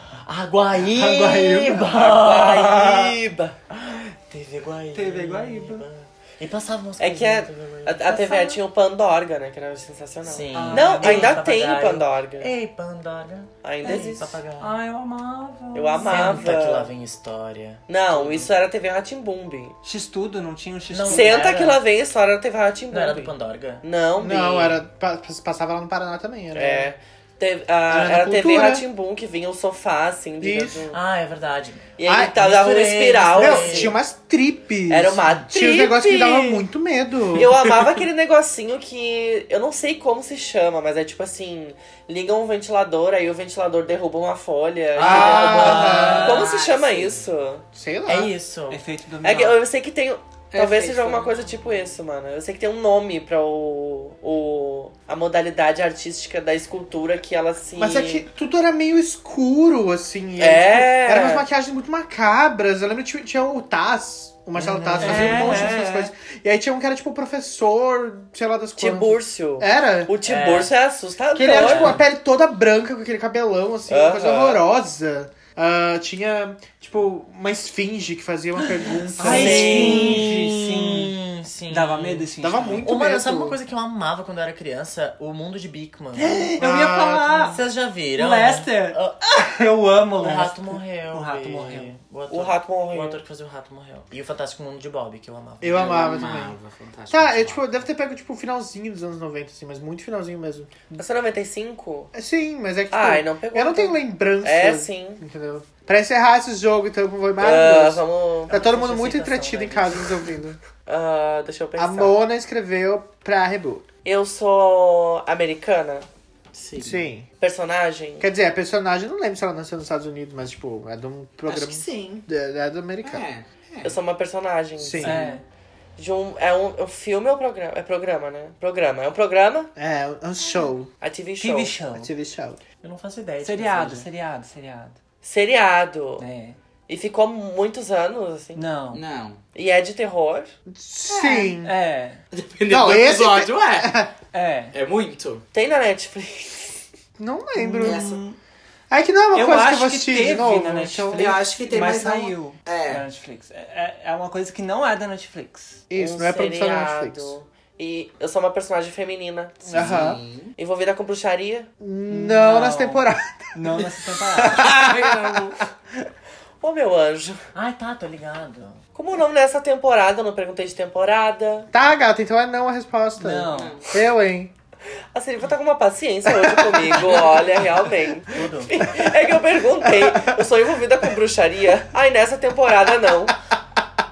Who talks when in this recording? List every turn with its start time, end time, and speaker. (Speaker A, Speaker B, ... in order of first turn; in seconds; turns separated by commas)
Speaker A: 0.1-3.2, Speaker B: 0.9-2.2, Speaker C: 1.8-3.5, Speaker A: 3.7-8.4, Speaker B: 4.9-5.8, Speaker C: 7.0-12.5, Speaker B: 8.2-8.5, Speaker A: 10.2-14.8, Speaker B: 10.5-11.4, Speaker C: 13.6-14.3, Speaker B: 13.8-16.4, Speaker C: 15.7-16.9, Speaker A: 16.0-18.4, Speaker C: 17.9-19.8, Speaker B: 19.8-21.4, Speaker A: 20.9-21.8, Speaker C: 21.1-24.8, Speaker A: 22.9-23.8, Speaker D: 24.2-26.9, Speaker C: 26.5-31.0, Speaker D: 27.9-28.8, Speaker D: 30.4-30.8, Speaker A: 30.9-34.0, Speaker C: 32.0-34.0, Speaker D: 32.0-32.3, Speaker D: 33.3-37.5, Speaker C: 34.9-36.6, Speaker C: 37.3-47.6, Speaker A: 45.0-46.1, Speaker D: 45.0-46.5, Speaker B: 45.4-46.4, Speaker E: 46.1-47.2, Speaker D: 47.7-48.3, Speaker A: 48.0-48.8, Speaker B: 48.7-49.6, Speaker C: 49.2-58.2, Speaker E: 50.5-51.3, Speaker D: 57.8-70.1, Speaker C: 60.4-61.4, Speaker A: 64.5-65.8, Speaker B: 65.0-66.1, Speaker C: 65.0-65.7, Speaker C: 68.8-72.0, Speaker A: 70.2-70.7, Speaker D: 71.3-79.9, Speaker A: 71.6-72.0, Speaker C: 73.9-74.6, Speaker B: 79.1-81.2, Speaker C: 79.2-80.2, Speaker A: 79.2-86.5, Speaker B: 81.7-82.9, Speaker D: 82.4-83.6, Speaker B: 86.1-87.6, Speaker D: 86.6-87.5, Speaker A: 87.5-89.2, Speaker B: 88.1-91.9, Speaker A: 90.2-96.1, Speaker C: 92.3-93.2, Speaker D: 95.6-96.6, Speaker E: 95.7-97.7, Speaker D: 97.1-101.0, Speaker C: 100.9-102.1, Speaker D: 102.1-110.6, Speaker C: 102.9-105.2, Speaker C: 107.4-108.9, Speaker A: 108.5-109.8, Speaker C: 110.8-112.2, Speaker D: 111.8-113.8, Speaker C: 114.0-116.0, Speaker E: 116.6-116.9, Speaker D: 116.8-117.3, Speaker C: 117.4-118.3, Speaker D: 118.2-123.2, Speaker E: 121.5-122.2, Speaker E: 123.0-123.9, Speaker C: 123.8-125.3, Speaker D: 124.8-125.2, Speaker B: 125.0-125.4, Speaker C: 126.0-129.7, Speaker D: 129.8-130.9, Speaker C: 131.0-131.7, Speaker B: 131.4-132.1, Speaker D: 132.0-132.6, Speaker A: 132.8-134.1, Speaker B: 133.4-135.0, Speaker C: 135.2-136.2, Speaker B: 136.2-136.6, Speaker C: 136.9-138.6, Speaker B: 138.5-139.0, Speaker E: 138.9-139.4, Speaker C: 139.5-140.5, Speaker D: 140.7-141.7, Speaker E: 141.1-141.5, Speaker B: 141.6-142.2, Speaker E: 142.3-143.9, Speaker D: 142.7-144.1, Speaker B: 144.3-144.8, Speaker E: 144.7-145.4, Speaker C: 145.5-146.8, Speaker D: 147.2-148.1, Speaker B: 147.6-148.4, Speaker E: 147.8-148.2, Speaker D: 148.9-151.4, Speaker B: 149.3-155.8, Speaker E: 151.1-153.1, Speaker D: 155.9-157.3, Speaker C: 155.9-159.7, Speaker D: 159.6-160.2, Speaker E: 159.7-160.5, Speaker C: 160.6-161.7, Speaker D: 161.8-165.6, Speaker B: 162.1-164.8, Speaker E: 164.6-165.6, Speaker C: 166.6-167.4, Speaker A: 167.5-168.8, Speaker C: 168.9-171.7, Speaker D: 171.7-174.5, Speaker B: 173.2-173.8, Speaker E: 173.5-173.9, Speaker C: 175.1-183.3, Speaker D: 176.4-177.0, Speaker A: 178.3-178.7, Speaker D: 179.9-180.3